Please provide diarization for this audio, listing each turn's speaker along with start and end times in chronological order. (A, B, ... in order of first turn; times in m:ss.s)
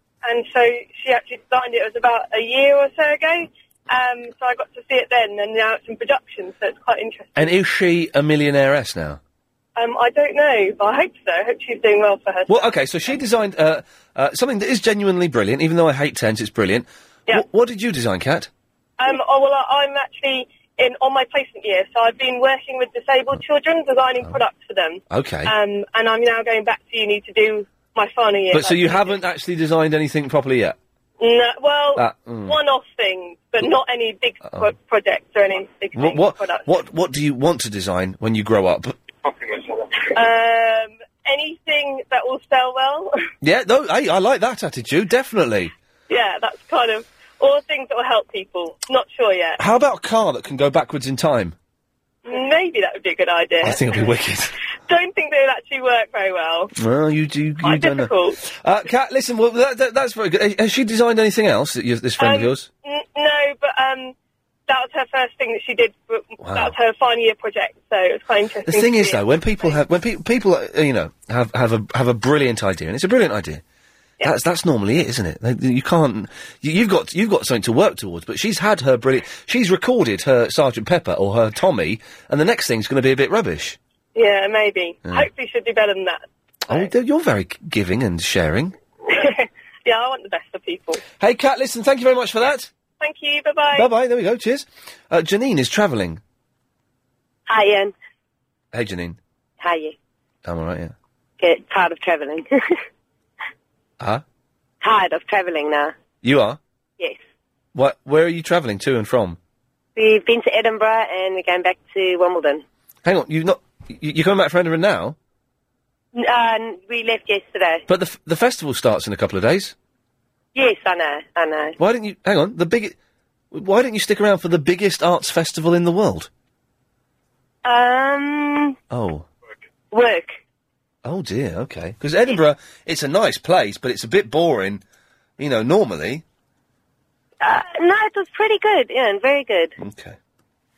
0:00.2-0:07.5 A
0:07.4-0:09.2 B
0:09.8-0:12.7 A
0:12.5-0:18.5 B
0:19.0-0:29.2 A
0:25.1-0:25.5 B
0:28.5-0:30.8 B
0:31.2-0:36.7 A
0:32.0-0:32.6 B
0:34.4-0:34.7 B
0:36.0-0:39.0 B
0:40.0-0:43.2 A
0:43.4-0:45.7 B
0:46.1-0:49.6 A
0:49.6-0:51.6 B
0:52.2-0:54.1 A
0:53.6-0:54.5 B
0:54.9-0:56.7 A
0:56.8-1:02.7 B
0:57.6-0:58.4 A
1:02.2-1:04.1 A
1:04.7-1:09.8 A
1:06.4-1:06.8 B
1:08.7-1:13.6 B
1:14.2-1:23.8 B
1:24.2-1:26.9 A
1:26.7-1:28.8 B
1:29.1-1:31.0 A
1:31.2-1:32.7 B
1:33.0-1:33.9 A
1:33.7-1:36.2 B
1:37.5-1:37.9 C
1:38.7-1:39.2 B
1:39.6-1:39.9 C
1:40.4-1:40.9 B
1:41.4-1:42.5 C
1:44.8-1:45.9 C
1:46.2-1:46.6 B
1:47.8-1:49.4 B
1:50.0-1:52.6 C
1:53.0-1:55.2 B
1:56.2-1:57.8 C
1:57.9-1:59.8 B
2:00.6-2:01.7 C
2:01.8-2:03.0 B
2:03.5-2:06.3 B
2:07.6-2:08.8 C
2:08.9-2:09.3 B
2:09.9-2:10.4 C
2:11.0-2:14.8 B
2:15.4-2:16.2 B
2:17.4-2:19.8 C
2:19.8-2:20.2 B